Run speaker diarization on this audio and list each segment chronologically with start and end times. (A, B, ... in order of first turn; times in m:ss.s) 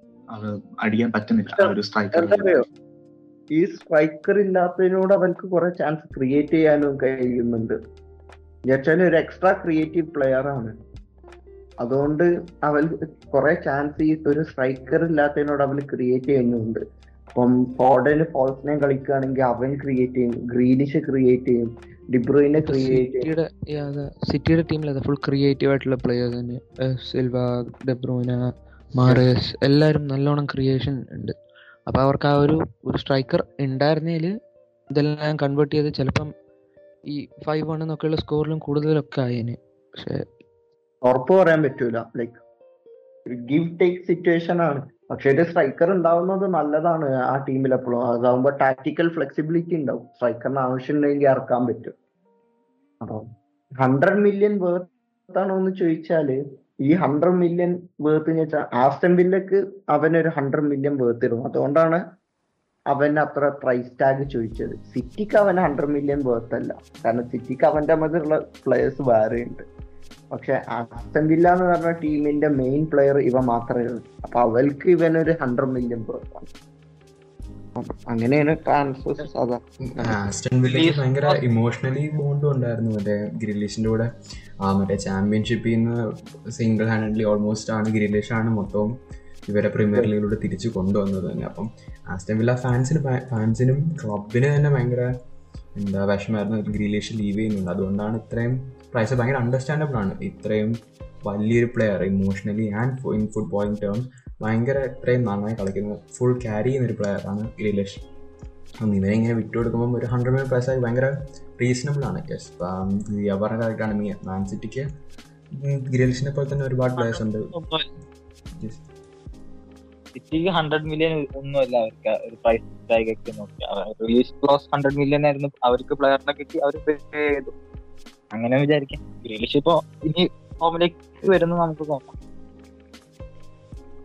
0:00.3-0:02.7 A
0:01.6-0:02.6 B
0:03.5-0:07.8 B
0:08.7-0:10.8 B
0:11.8-0:16.8 B
0:17.4-0:23.3 B
0:22.6-0:28.4 C
0:28.9-0:31.4 C
0:31.9-0:34.3 C
0:34.9-0:36.3 C
0:37.1-0:40.3 C
0:41.0-0:42.4 B
0:43.3-0:52.0 B
0:53.0-0:53.3 B
0:53.8-1:02.0 B
1:02.9-1:09.6 B
1:10.3-1:16.5 B
1:17.8-1:20.1 B
1:19.9-1:24.1 D
1:20.6-1:21.4 E
1:24.6-1:26.0 D
1:26.5-1:28.9 D
1:29.5-1:35.1 D
1:35.8-1:48.0 D
1:48.8-1:54.9 D
1:55.5-1:57.5 D
1:57.0-1:57.9 E
1:58.6-1:58.8 D
2:00.2-2:07.5 E
2:08.3-2:12.1 E